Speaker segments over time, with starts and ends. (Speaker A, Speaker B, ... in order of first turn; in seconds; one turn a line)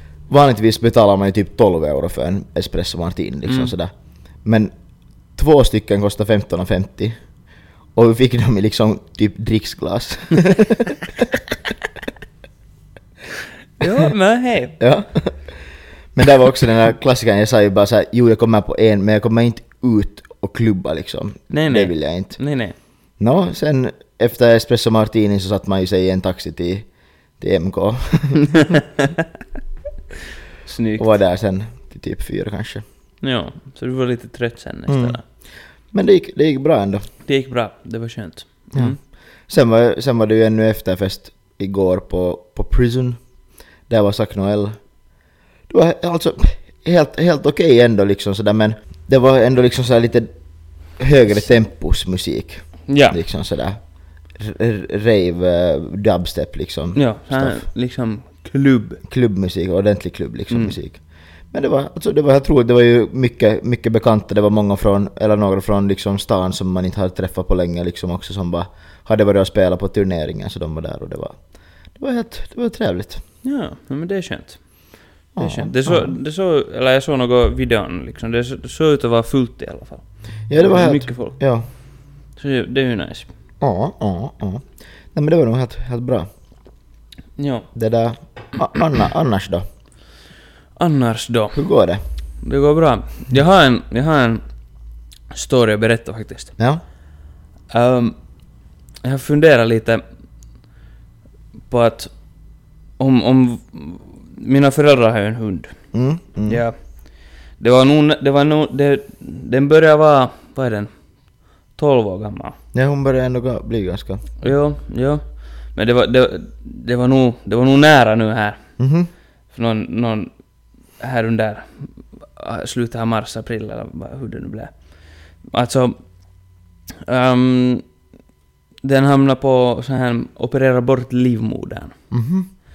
Speaker A: 0.3-3.9
Speaker B: 3.5-3.7
Speaker A: 4.4-4.7
Speaker A: 5.3-7.2
Speaker A: 7.9-11.4
Speaker B: 13.8-14.8
Speaker A: 14.8-15.5
Speaker A: 16.1-22.4
Speaker B: 21.5-22.7
Speaker A: 23.2-26.9
Speaker A: 27.4-28.6
Speaker B: 28.4-29.2
Speaker B: 30.6-31.1
Speaker A: 31.0-32.8
Speaker B: 33.2-35.2
Speaker A: 34.9-35.2
Speaker A: 35.9-37.0
Speaker B: 37.3-39.0
Speaker A: 39.5-43.2
Speaker A: 43.9-44.8
Speaker A: 45.7-50.3
Speaker A: 51.0-53.8
Speaker B: 52.9-53.2
Speaker A: 54.3-57.6
Speaker B: 56.9-59.0
Speaker A: 59.1-61.0
Speaker A: 61.5-71.4
Speaker A: 71.9-73.2
Speaker B: 73.4-74.6
Speaker A: 75.3-76.1
Speaker B: 75.4-80.0
Speaker A: 80.5-81.7
Speaker B: 80.5-81.4
Speaker B: 82.3-83.3
Speaker A: 83.6-86.3
Speaker B: 87.4-87.7
Speaker A: 87.7-89.6
Speaker B: 90.8-91.6
Speaker A: 91.5-92.0
Speaker B: 92.4-94.4
Speaker B: 95.3-96.5
Speaker B: 97.7-98.2
Speaker B: 99.0-100.0
Speaker B: 101.7-102.1
Speaker B: 103.0-105.7
Speaker A: 105.9-106.6
Speaker B: 106.5-106.7
Speaker B: 107.6-110.9
Speaker B: 111.7-112.5
Speaker A: 112.7-114.2
Speaker B: 114.4-115.2
Speaker B: 115.7-118.6
Speaker A: 118.8-119.1
Speaker B: 119.5-120.3
Speaker B: 121.0-124.7
Speaker B: 125.5-126.0
Speaker B: 127.0-127.8
Speaker B: 128.8-131.9
Speaker A: 132.1-132.5